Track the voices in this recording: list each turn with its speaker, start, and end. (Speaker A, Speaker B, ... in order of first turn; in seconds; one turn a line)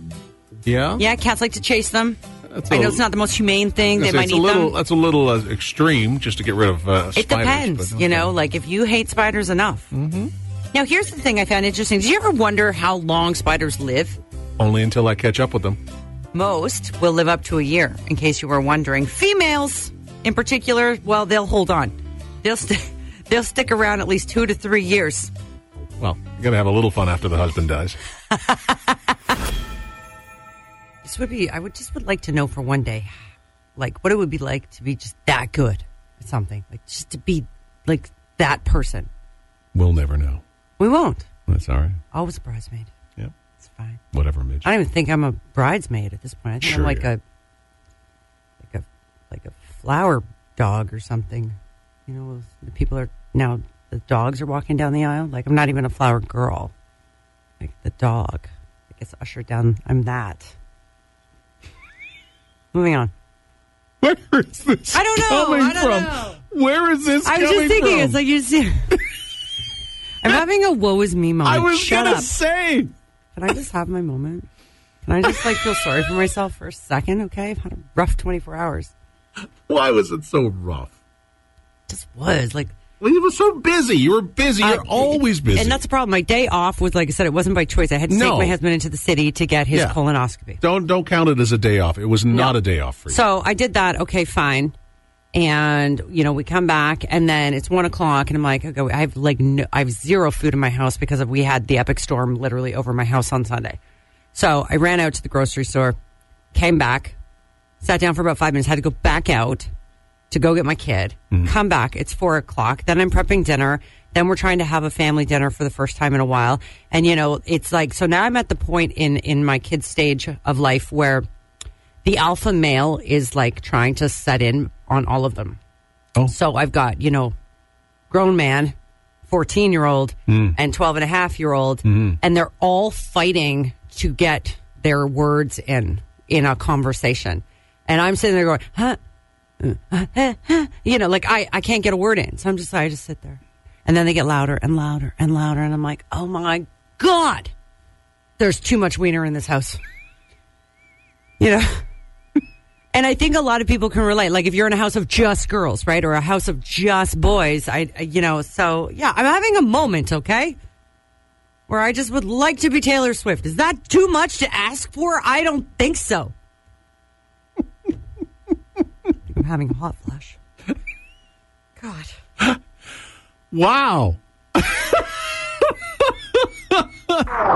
Speaker A: 0.6-1.0
Speaker B: 1.0-4.7
Speaker A: 2.5-3.0
Speaker A: 3.9-8.3
Speaker B: 7.1-9.9
Speaker A: 9.9-10.3
Speaker B: 10.7-14.2
Speaker A: 14.6-15.8
Speaker B: 16.3-25.3
Speaker A: 26.0-28.0
Speaker B: 28.3-28.8
Speaker B: 31.0-33.2
Speaker B: 33.8-39.1
Speaker A: 39.7-40.4
Speaker B: 40.8-41.3
Speaker A: 41.5-42.0
Speaker B: 42.1-42.9
Speaker B: 43.6-44.0
Speaker A: 44.1-44.7
Speaker B: 44.6-47.2
Speaker A: 46.6-47.1
Speaker B: 48.6-51.5
Speaker B: 52.1-56.7
Speaker B: 57.6-60.5
Speaker B: 62.7-63.1
Speaker A: 64.0-68.2
Speaker B: 64.9-66.4
Speaker B: 67.2-68.9
Speaker B: 70.2-72.3
Speaker A: 71.4-72.9
Speaker B: 73.3-74.5
Speaker B: 75.0-78.9
Speaker A: 75.2-75.7
Speaker A: 79.7-80.9
Speaker B: 81.9-82.7
Speaker A: 83.0-85.8
Speaker B: 84.6-90.6
Speaker A: 88.1-88.6
Speaker A: 90.6-93.2
Speaker B: 92.3-92.6
Speaker B: 93.1-94.7
Speaker B: 95.3-103.8
Speaker B: 104.3-106.0
Speaker B: 106.5-107.2
Speaker B: 107.8-109.7
Speaker B: 110.3-121.2
Speaker B: 122.0-125.6
Speaker B: 126.3-127.3
Speaker B: 128.1-128.7
Speaker B: 129.2-139.0
Speaker A: 130.3-130.6
Speaker A: 131.8-132.2
Speaker B: 139.6-147.5
Speaker B: 148.4-149.8
Speaker B: 151.4-151.7
Speaker B: 152.9-160.6
Speaker B: 161.7-166.3
Speaker B: 169.3-170.4
Speaker B: 171.8-172.1
Speaker A: 173.5-175.1